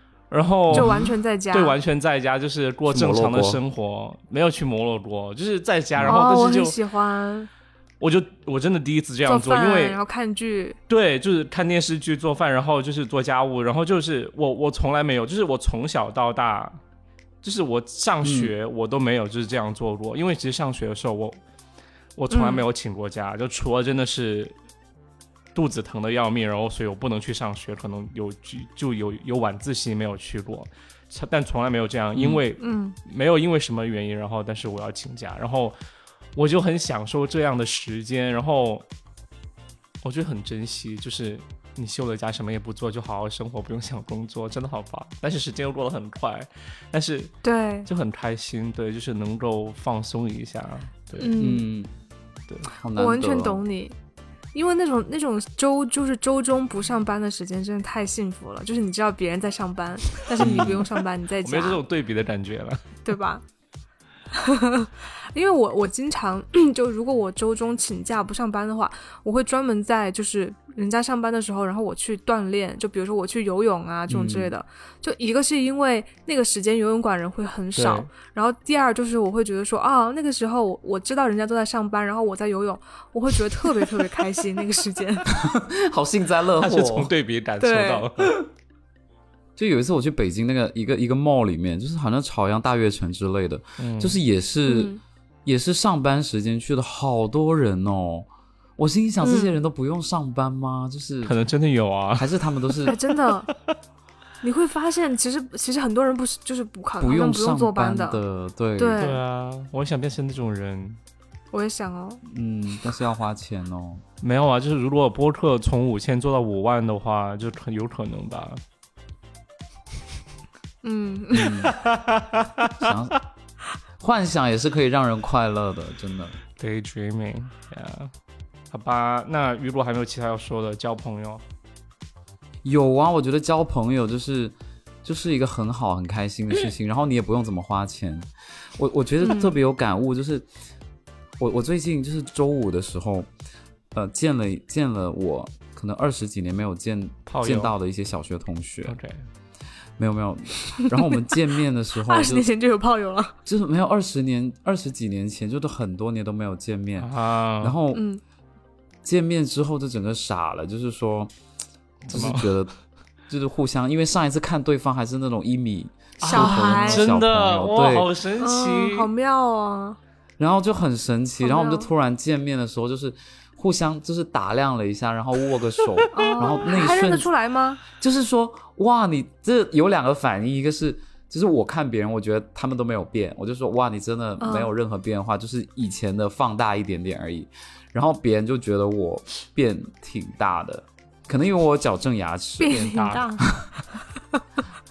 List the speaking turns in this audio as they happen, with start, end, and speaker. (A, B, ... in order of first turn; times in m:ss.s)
0:00.3-0:06.8 A
0:00.7-0:01.1 B
0:00.7-0:01.8 C
0:02.9-0:03.6 B
0:06.0-0:07.5 C
0:08.0-0:10.0 A
0:09.2-0:10.8 C
0:10.9-0:16.8 A
0:17.4-0:21.4 A
0:18.2-0:18.5 B
0:22.2-0:24.5 A
0:22.3-0:22.6 C
0:25.5-0:35.8 A
0:32.1-0:32.4 B
0:32.6-0:33.0 C
0:36.4-0:38.8 A
0:40.0-0:47.3 A
0:47.4-0:47.9 C
0:47.8-0:51.3 A
0:51.2-0:51.7 C
0:51.4-0:51.9 B
0:52.7-0:53.6 B
0:53.0-0:53.9 C
0:54.5-1:01.8 C
1:00.4-1:00.8 A
1:00.4-1:00.8 B
1:01.4-1:02.8 A
1:03.0-1:03.4 C
1:04.3-1:25.3 C
1:14.1-1:14.5 B
1:17.8-1:18.1 A
1:25.3-1:27.1 B
1:26.6-1:28.4 A
1:27.6-1:28.1 C
1:29.6-1:34.9 B
1:33.8-1:34.2 A
1:34.6-1:35.0 C
1:35.4-1:41.3 B
1:39.2-1:39.6 C
1:41.2-1:43.0 A
1:42.2-1:42.9 B
1:42.8-1:43.5 C
1:43.5-1:43.7 A
1:44.4-1:48.2 C
1:47.0-1:49.0 B
1:48.8-1:49.2 C
1:49.0-1:51.0 A
1:51.5-1:52.2 C
1:52.2-1:54.0 B
1:54.2-1:58.6 A
2:00.8-2:01.7 C
2:01.3-2:01.7 B
2:01.7-2:03.0 A
2:02.8-2:03.2 B
2:04.0-2:06.4 B
2:06.6-2:08.1 A
2:08.7-2:11.4 A
2:12.6-2:20.4 B
2:19.2-2:19.6 C
2:21.4-2:23.3 B
2:23.9-2:29.0 B
2:27.3-2:27.7 A
2:28.8-2:29.3 A
2:30.0-2:32.5 B
2:30.6-2:31.0 C
2:32.0-2:33.3 C
2:33.4-2:38.0 B
2:37.0-2:37.8 A
2:37.9-2:38.2 C
2:39.0-2:41.3 B
2:42.0-2:42.6 A
2:42.1-2:42.7 B
2:43.3-2:48.1 B
2:46.2-2:49.1 A
2:46.2-2:47.1 C
2:48.4-2:50.0 C
2:50.4-2:57.3 B
2:51.4-2:51.9 C
2:55.9-2:56.8 A
2:56.1-2:57.8 C
2:58.0-3:12.8 B
3:04.4-3:04.7 C
3:12.6-3:13.5 C
3:12.7-3:13.5 A